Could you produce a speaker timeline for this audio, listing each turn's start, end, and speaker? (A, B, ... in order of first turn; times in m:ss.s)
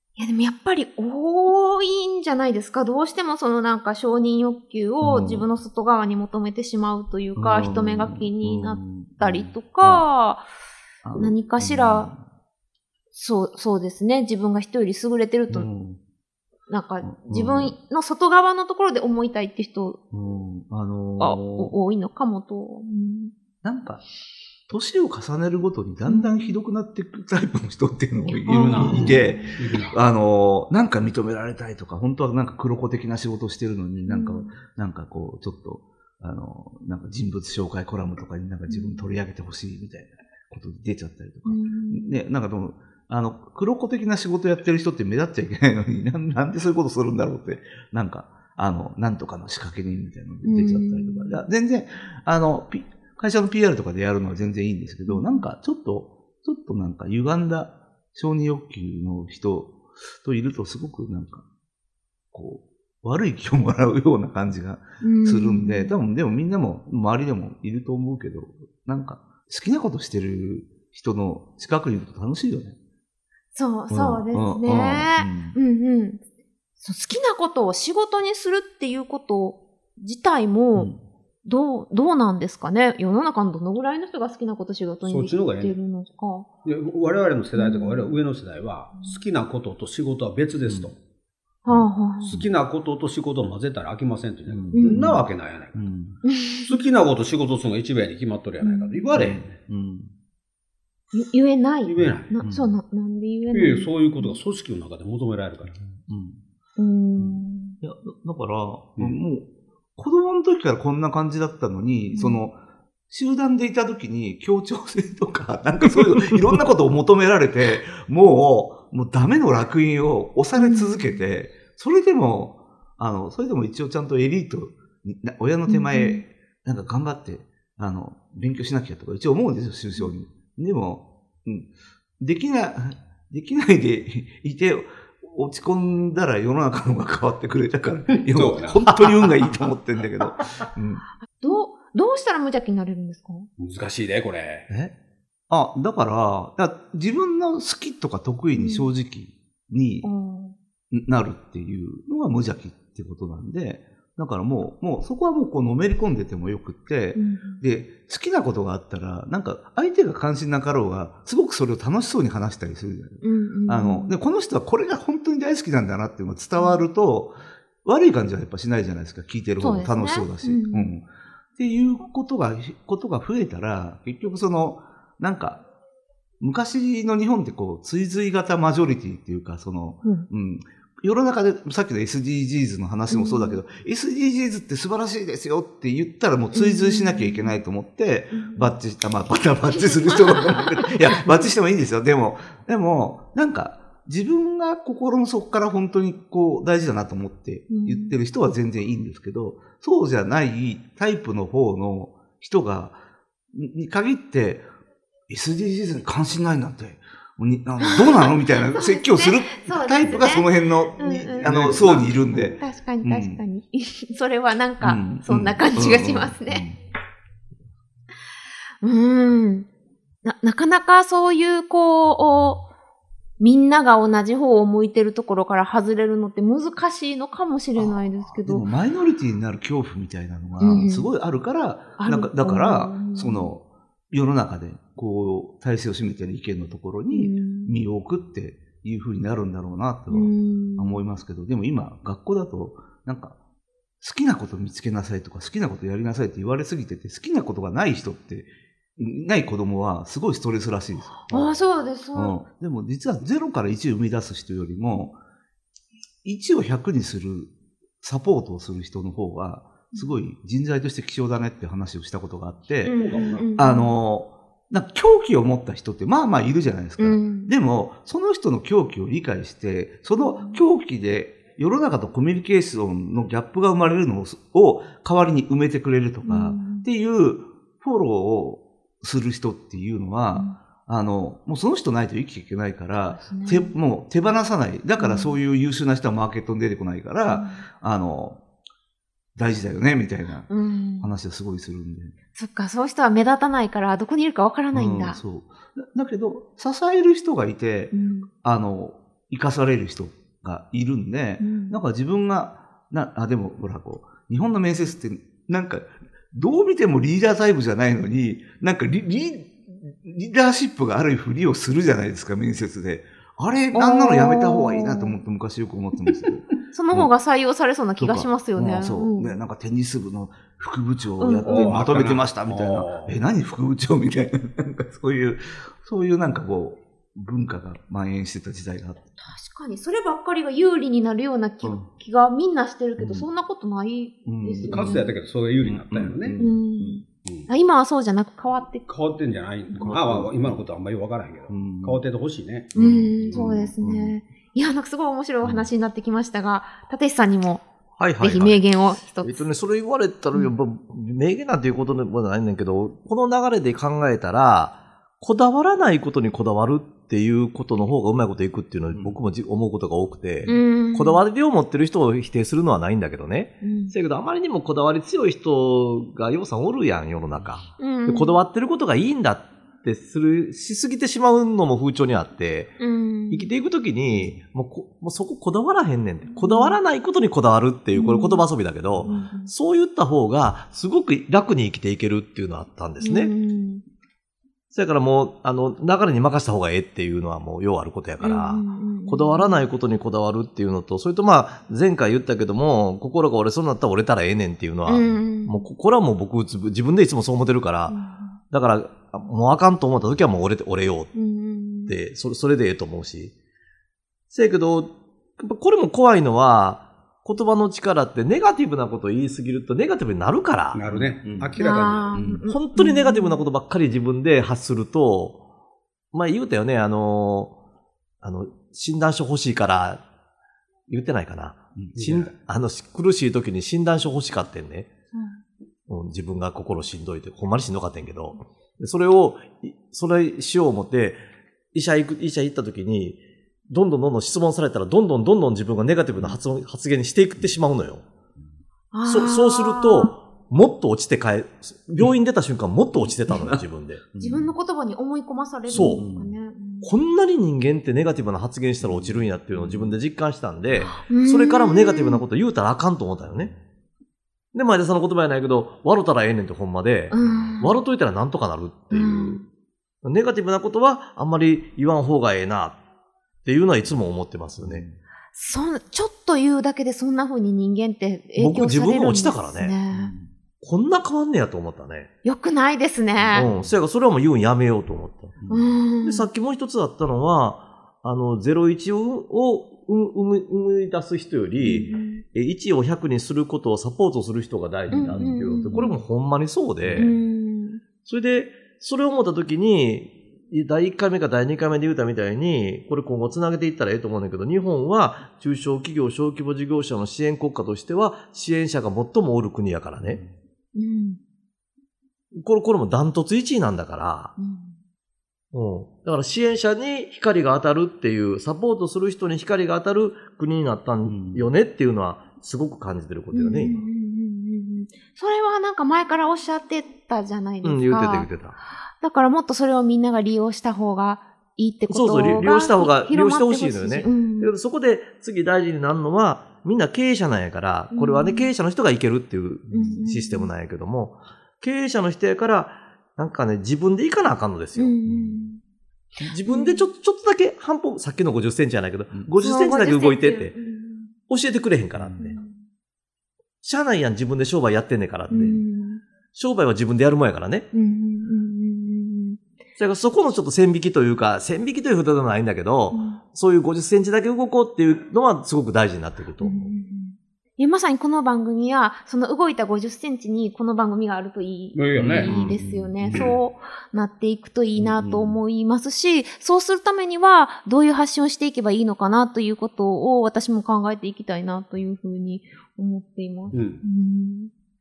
0:00.2-0:10.4 A
0:05.0-0:05.5 B
0:07.4-0:10.1 B
0:11.0-0:12.2 B
0:11.1-0:12.1 A
0:13.1-0:15.7 A
0:15.5-0:16.0 B
0:16.7-0:20.0 A
0:17.0-0:17.8 B
0:20.1-0:21.7 B
0:21.2-0:23.3 A
0:23.6-0:24.0 B
0:24.7-1:01.4 B
0:26.1-0:26.6 A
0:28.3-0:29.5 A
0:28.6-0:30.0 C
0:34.1-0:34.5 A
0:38.7-0:39.1 A
0:41.5-0:42.2 A
0:50.4-0:51.4 A
0:55.1-0:55.4 A
1:02.3-1:12.8 B
1:05.0-1:05.9 A
1:13.5-1:16.2 A
1:13.9-1:15.6 B
1:16.8-1:20.9 A
1:20.8-1:21.0 B
1:21.4-1:26.5 A
1:25.0-1:25.8 C
1:26.6-1:31.0 C
1:27.6-1:28.2 A
1:30.7-1:30.9 B
1:31.6-1:32.4 A
1:31.7-1:32.4 B
1:32.2-1:35.9 C
1:34.5-1:35.2 B
1:34.8-1:35.2 A
1:35.8-1:36.2 B
1:36.2-1:36.7 A
1:36.6-1:39.5 C
1:38.6-1:39.0 A
1:39.2-1:40.1 B
1:41.1-1:44.4 A
1:41.9-1:42.4 C
1:42.0-1:42.8 B
1:43.5-1:45.8 C
1:45.8-1:46.4 B
1:46.8-1:47.8 A
1:47.2-1:52.6 B
1:52.1-1:52.4 A
1:53.1-2:21.0 B
2:00.6-2:01.2 A
2:05.7-2:06.2 A
2:18.1-2:19.4 C
2:21.4-2:23.5 A
2:23.6-2:24.7 C
2:24.7-2:24.9 B
2:25.5-2:30.1 B
2:28.6-2:28.9 A
2:30.0-2:30.6 A
2:30.9-2:55.6 B
2:37.2-2:37.6 A
2:43.2-2:44.1 A
2:46.6-2:46.8 A
2:49.6-2:50.9 A
2:56.4-3:23.0 B
3:03.1-3:03.6 A
3:06.5-3:07.6 A
3:08.3-3:08.8 A
3:09.9-3:10.7 A
3:17.7-3:18.1 A
3:23.5-3:24.7 B
3:25.3-3:33.4 B
3:27.8-3:31.5 A
3:31.4-3:32.2 C
3:32.6-3:36.7 A
3:34.8-3:36.8 B
3:38.8-3:39.7 A
3:40.2-3:42.7 A
3:43.4-3:48.7 A
3:47.8-4:03.4 B
3:50.6-3:51.1 A
3:52.0-3:53.5 A
3:57.1-3:57.8 A
4:00.1-4:01.1 A
4:04.0-4:11.6 B
4:11.2-4:12.4 A
4:12.1-4:15.2 B
4:16.2-4:48.4 B
4:19.9-4:20.2 A
4:22.8-4:24.0 A
4:22.9-4:23.6 C
4:27.0-4:27.5 A
4:30.2-4:30.6 A
4:36.2-4:36.9 A
4:43.2-4:43.7 A
4:45.0-4:45.4 A
4:47.3-4:47.6 A
4:49.4-4:52.1 B
4:50.5-4:51.1 A
4:52.4-4:55.2 A
4:54.7-5:17.1 B
4:57.9-4:58.3 A
5:01.4-5:01.8 A
5:13.7-5:15.2 A
5:16.7-5:19.4 A
5:18.0-5:29.1 B
5:21.2-5:21.7 A
5:21.4-5:23.2 C
5:29.2-5:35.1 A
5:31.6-5:31.9 B
5:33.0-5:33.3 B
5:34.2-5:35.1 B
5:34.6-5:36.4 C
5:35.6-5:37.1 B
5:36.4-5:38.9 A
5:38.9-5:43.4 C
5:39.8-5:40.6 B
5:41.5-5:42.0 B
5:42.7-5:44.2 B
5:42.8-5:47.6 A
5:45.4-5:45.7 B
5:48.0-6:12.8 D
5:48.2-5:49.4 A
5:58.9-5:59.2 B
6:00.5-6:01.2 A
6:03.6-6:04.0 A
6:07.8-6:08.3 A
6:12.8-6:13.5 A
6:13.3-6:23.3 D
6:16.4-6:16.8 A
6:17.9-6:18.4 A
6:19.0-6:19.5 A
6:23.0-6:23.8 A
6:24.7-6:38.0 D
6:28.2-6:29.7 A
6:34.9-6:35.7 A
6:37.9-6:38.4 A
6:38.5-6:41.2 D
6:41.1-6:42.0 A
6:41.9-6:43.3 D
6:44.3-6:50.8 D
6:50.7-6:52.2 C
6:50.9-6:51.6 B
6:51.6-6:53.4 A
6:52.1-6:52.4 B
6:52.4-6:55.4 D
6:56.1-6:57.6 D
6:58.2-7:00.0 D
7:00.9-7:04.9 D
7:02.0-7:02.3 C
7:05.1-7:05.4 A
7:05.9-7:11.2 D
7:11.7-7:18.0 D
7:18.9-7:20.1 A
7:19.1-7:24.0 D
7:23.3-7:24.5 B
7:24.2-7:26.9 A
7:25.7-7:26.1 D
7:25.8-7:26.4 B
7:26.8-7:33.5 D
7:28.8-7:30.0 B
7:31.0-7:32.2 A
7:33.4-7:33.6 B
7:34.5-7:39.4 D
7:37.1-7:37.8 A
7:38.9-7:39.4 A
7:40.0-7:42.8 D
7:43.4-7:44.8 D
7:44.6-7:45.0 B
7:45.3-7:50.1 A
7:48.4-7:49.8 D
7:49.9-7:50.3 B
7:50.6-7:52.1 D
7:52.2-7:53.5 A
7:53.2-7:53.8 B
7:53.3-7:55.4 D
7:55.4-7:55.7 B
7:55.5-7:56.3 A
7:56.0-8:07.2 D
8:01.6-8:02.2 A
8:04.9-8:05.9 B
8:04.9-8:06.0 A
8:06.9-8:07.1 B
8:07.0-8:07.8 A
8:08.0-8:20.2 D
8:20.0-8:20.3 B
8:20.8-8:21.2 A
8:22.4-8:24.4 D
8:24.4-8:24.8 A
8:25.5-8:33.8 D
8:31.1-8:31.5 B
8:33.3-8:44.5 A
8:37.6-8:38.6 D
8:41.9-8:55.0 D
8:47.9-8:48.5 A
8:49.7-8:50.5 A
8:49.7-8:50.0 B
8:54.8-8:55.6 A
8:55.0-8:55.4 B
8:56.2-9:00.6 D
8:56.5-8:56.9 A
8:59.1-8:59.4 B
8:59.4-9:01.1 A
9:01.3-9:02.4 D
9:02.0-9:02.3 B
9:02.2-9:02.6 A
9:03.6-9:05.6 D
9:05.3-9:06.0 A
9:06.4-9:07.7 D
9:07.7-9:09.4 A
9:09.8-9:16.7 D
9:12.9-9:13.2 A
9:16.4-9:34.5 A
9:21.8-9:22.4 C
9:22.0-9:23.3 B
9:22.0-9:23.4 D
9:24.8-9:25.4 B
9:33.5-9:33.8 C